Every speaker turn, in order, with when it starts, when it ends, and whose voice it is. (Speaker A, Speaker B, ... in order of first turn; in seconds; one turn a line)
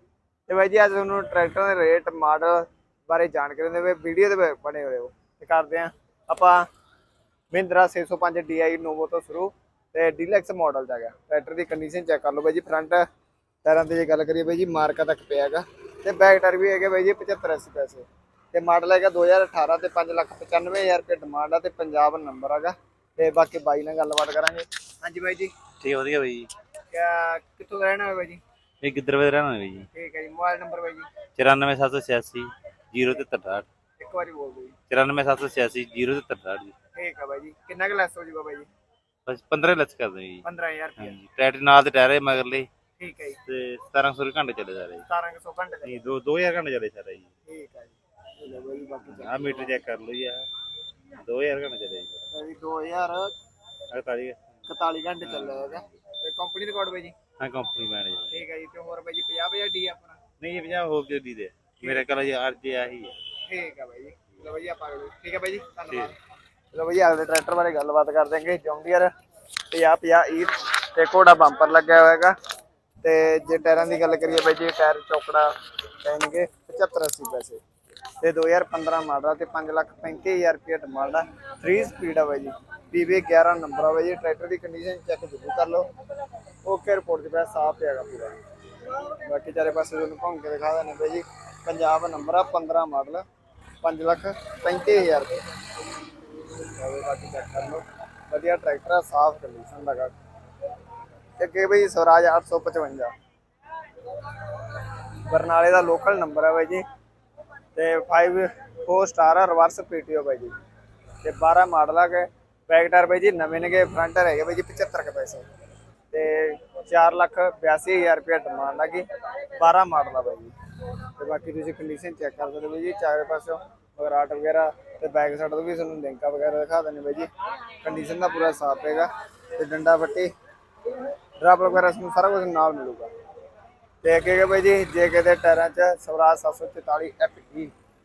Speaker A: 0.5-6.7
Speaker A: 7.5-13.0
Speaker A: 13.6-25.5
Speaker B: 25.8-26.5
Speaker A: 26.9-28.4
Speaker B: 28.8-29.9
Speaker A: 29.9-31.1
Speaker B: 31.4-33.6
Speaker A: 34.0-34.7
Speaker B: 34.9-36.7
Speaker A: 36.9-38.7
Speaker B: 39.3-40.4
Speaker A: 40.4-41.1
Speaker B: 41.0-42.7
Speaker A: 43.0-43.4
Speaker B: 43.5-45.0
Speaker A: 45.1-45.9
Speaker B: 45.9-47.3
Speaker A: 47.5-49.8
Speaker B: 49.0-50.5
Speaker B: 51.1-52.2
Speaker A: 52.3-53.3
Speaker B: 53.9-54.4
Speaker A: 54.7-57.1
Speaker B: 55.2-55.8
Speaker B: 57.4-58.4
Speaker A: 58.3-60.2
Speaker B: 60.4-63.1
Speaker A: 63.4-66.1
Speaker A: 66.7-69.1
Speaker A: 69.7-72.3
Speaker A: 73.0-77.6
Speaker A: 78.2-85.9
Speaker A: 86.6-93.2
Speaker A: 93.8-95.4
Speaker A: 96.7-100.2
Speaker A: 101.4-103.1
Speaker A: 105.2-106.8
Speaker A: 107.7-110.5
Speaker A: 111.2-115.4
Speaker A: 116.1-120.5
Speaker A: 121.2-127.3
Speaker A: 127.8-130.3
Speaker A: 131.4-133.1
Speaker A: 134.0-137.7